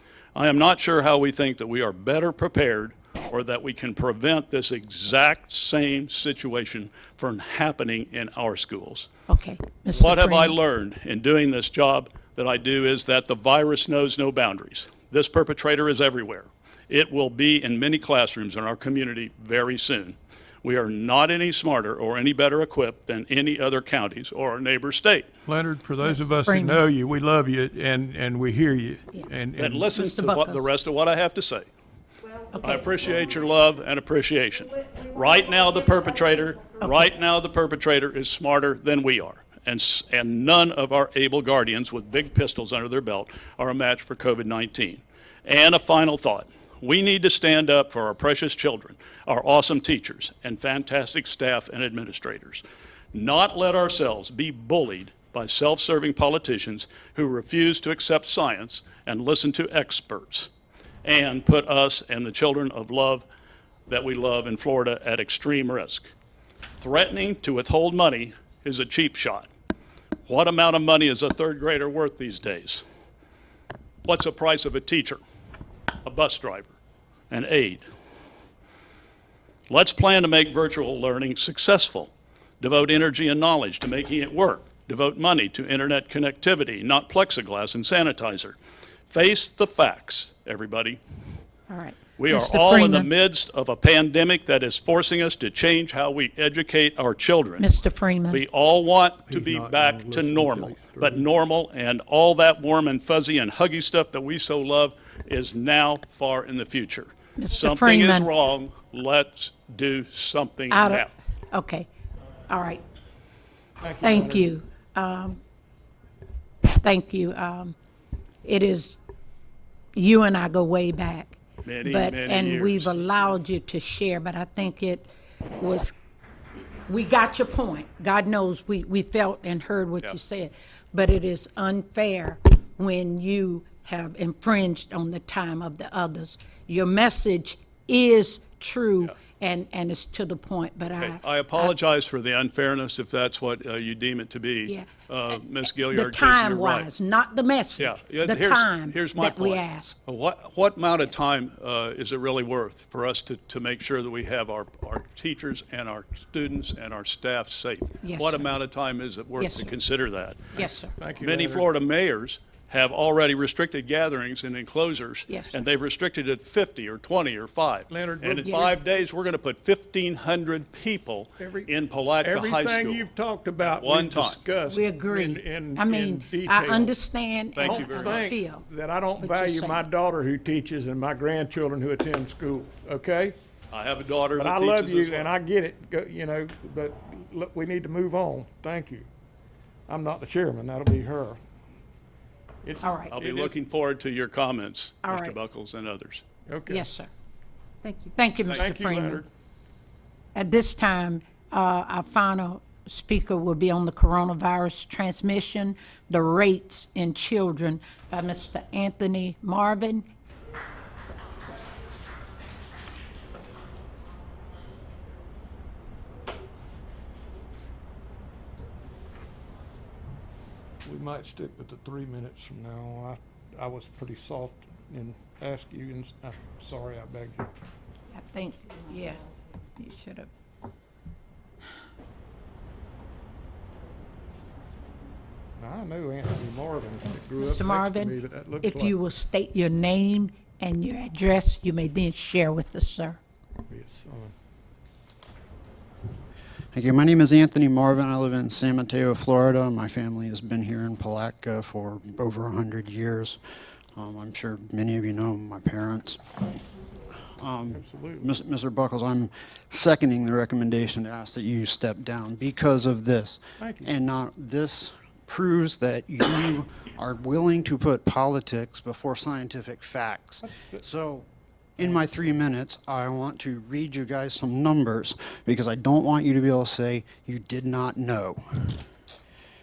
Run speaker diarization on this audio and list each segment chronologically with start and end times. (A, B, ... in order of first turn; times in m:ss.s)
0:00.3-0:09.1 A
0:09.3-0:10.6 B
0:09.9-0:25.3 A
0:25.5-0:29.9 C
0:26.0-0:26.8 B
0:29.6-0:31.7 A
0:29.9-0:30.6 B
0:32.5-0:32.9 B
0:32.6-1:00.5 A
1:01.0-1:03.2 A
1:03.9-1:06.1 A
1:06.8-1:09.5 A
1:10.2-1:12.8 A
1:14.0-1:15.2 A
1:16.0-1:16.7 A
1:17.3-1:17.8 A
1:19.7-1:28.6 A
1:29.1-1:31.0 A
1:31.7-1:33.1 B
1:32.2-1:37.7 A
1:37.6-1:38.4 B
1:38.3-1:51.1 A
1:39.3-1:41.2 C
1:47.4-1:48.3 B
1:50.7-1:51.9 B
1:52.5-1:52.8 B
1:53.8-1:54.5 C
1:54.0-1:55.4 B
1:56.6-1:57.7 B
1:58.4-1:59.0 B
1:59.9-2:05.9 B
2:01.6-2:03.4 A
2:06.9-2:21.7 B
2:21.0-2:26.9 A
2:24.6-2:30.0 B
2:27.8-2:40.6 A
2:38.0-2:38.5 B
2:39.4-2:39.7 B
2:40.5-2:40.9 B
2:40.6-2:41.7 C
2:41.2-2:53.1 A
2:45.3-2:45.5 B
2:47.9-2:48.7 C
2:48.4-2:48.7 B
2:51.4-2:51.7 C
2:52.2-2:57.0 C
2:53.7-2:54.4 A
2:54.6-2:58.6 B
2:57.6-2:58.4 A
2:57.6-3:03.4 C
2:59.2-2:59.9 B
3:03.7-3:05.3 A
3:04.4-3:09.1 C
3:09.9-3:11.4 C
3:12.6-3:13.5 C
3:12.8-3:13.1 B
3:13.1-3:16.2 A
3:15.0-3:15.4 B
3:16.5-3:16.9 C
3:16.7-3:17.1 B
3:18.0-3:19.2 B
3:18.4-3:19.2 C
3:20.3-3:30.0 B
3:40.8-3:47.5 C
3:48.1-3:50.3 B
3:55.6-3:59.0 C
3:57.4-4:03.2 B
4:03.7-4:04.3 C
4:06.7-4:13.4 D
4:14.0-4:16.2 D
4:17.4-4:31.2 D
4:17.7-4:18.3 C
4:23.6-4:23.9 C
4:30.4-4:30.8 C
4:31.8-4:38.8 D
4:31.8-4:32.2 C